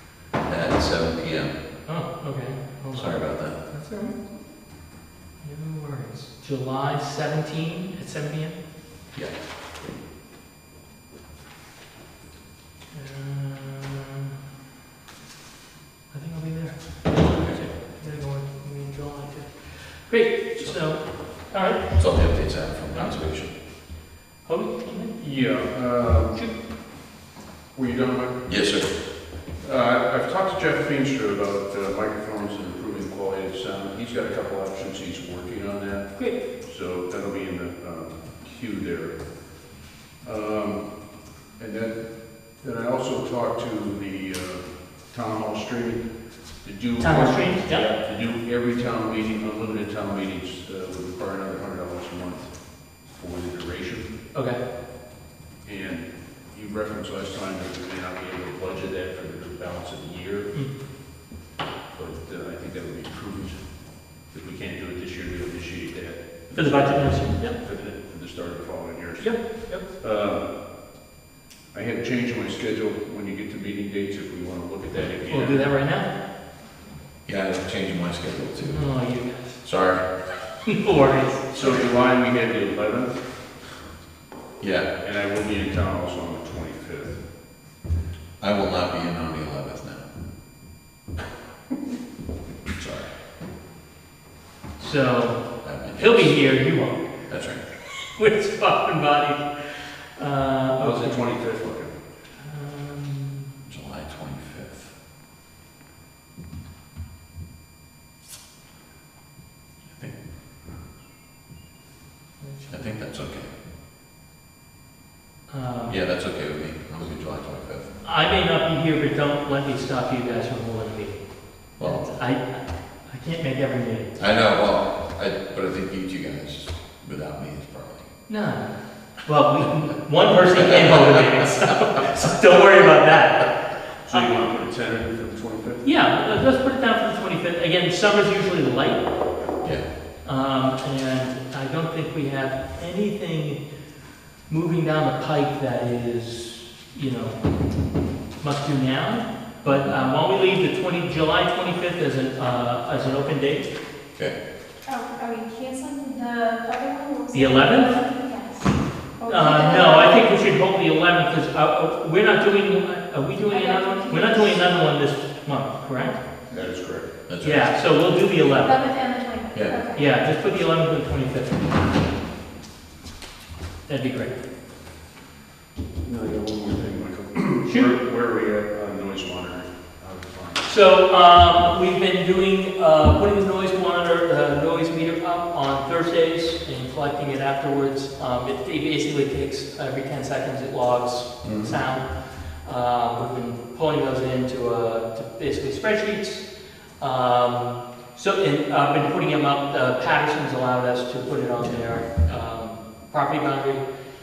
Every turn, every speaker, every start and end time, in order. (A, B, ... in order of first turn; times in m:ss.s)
0:00.4-0:01.6 A
0:01.8-0:04.1 B
0:02.9-0:03.6 A
0:05.4-0:08.6 B
0:12.9-0:14.3 B
0:16.1-0:23.2 B
0:17.3-0:17.6 A
0:20.6-0:21.4 A
0:22.0-0:23.5 A
0:23.9-0:25.4 B
0:25.2-0:26.4 C
0:27.7-0:28.5 C
0:28.4-0:28.9 A
0:29.6-0:39.3 C
0:36.2-0:36.4 B
0:40.2-0:40.9 C
0:41.6-0:46.1 C
0:46.6-0:54.1 C
0:47.0-0:47.9 B
0:54.3-0:54.6 B
0:55.6-1:00.5 C
1:01.9-1:10.5 C
1:06.5-1:07.6 B
1:09.2-1:09.8 B
1:11.7-1:15.6 C
1:15.3-1:16.1 B
1:17.2-1:18.8 A
1:18.7-1:19.6 B
1:19.6-1:20.0 A
1:20.6-1:21.5 B
1:21.5-1:23.1 C
1:21.6-1:21.8 A
1:24.6-1:24.9 A
1:25.0-1:27.2 C
1:28.4-1:30.1 A
1:32.7-1:33.1 A
1:34.8-1:37.0 B
1:35.6-1:36.4 A
1:37.3-1:37.6 A
1:38.0-1:41.3 B
1:40.8-1:41.9 C
1:42.4-1:43.5 B
1:43.7-1:44.9 A
1:49.9-1:50.2 A
1:52.4-1:52.7 B
1:52.7-1:53.5 A
1:55.5-1:56.0 B
1:55.9-1:58.0 A
1:58.0-2:01.2 B
2:01.7-2:04.2 B
2:01.8-2:02.1 A
2:04.2-2:08.1 A
2:08.3-2:08.7 B
2:09.2-2:14.3 B
2:10.6-2:11.2 A
2:14.1-2:15.8 C
2:15.8-2:19.1 B
2:20.2-2:23.6 B
2:24.5-2:27.4 B
2:28.4-2:33.7 B
2:29.6-2:30.0 A
2:34.8-2:40.3 D
2:37.3-2:38.0 B
2:39.3-2:46.2 B
2:43.5-2:44.6 D
2:46.5-2:47.1 C
2:47.3-2:47.7 A
2:47.4-2:48.9 B
2:48.6-2:50.1 D
2:49.9-2:52.0 B
2:53.9-2:54.4 B
2:56.0-3:00.6 C
2:57.7-2:57.9 B
3:00.6-3:16.5 B
3:11.4-3:11.7 A
3:17.0-3:23.8 B
3:21.7-3:22.4 A